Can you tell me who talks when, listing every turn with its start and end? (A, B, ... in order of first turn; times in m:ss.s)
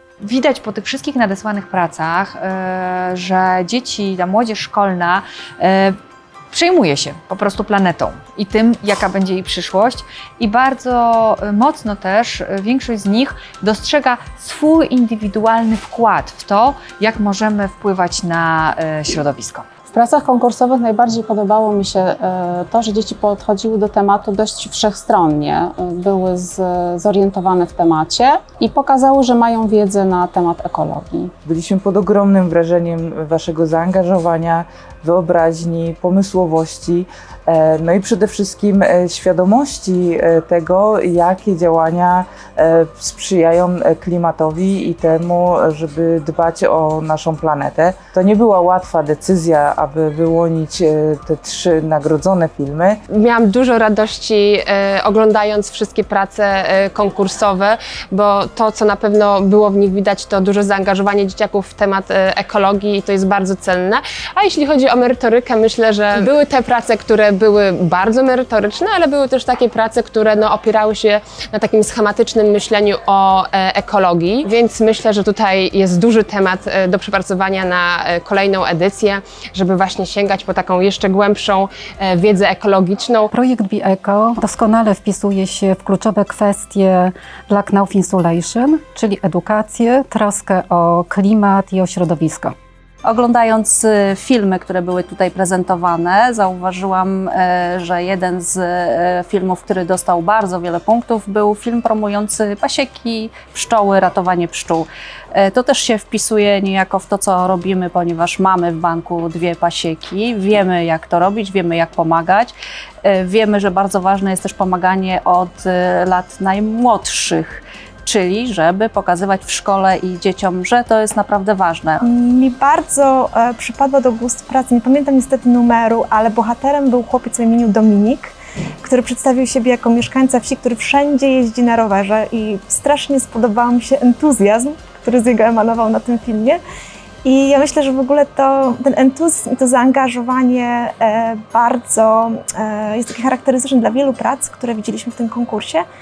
0:00.2-0:06.0 A
0:06.5-0:19.6 A
0:19.9-0:31.3 B
0:31.4-0:53.0 C
0:53.1-1:23.3 D
1:23.3-1:32.5 E
1:33.0-2:02.0 F
2:02.0-2:16.6 G
2:17.2-2:25.8 G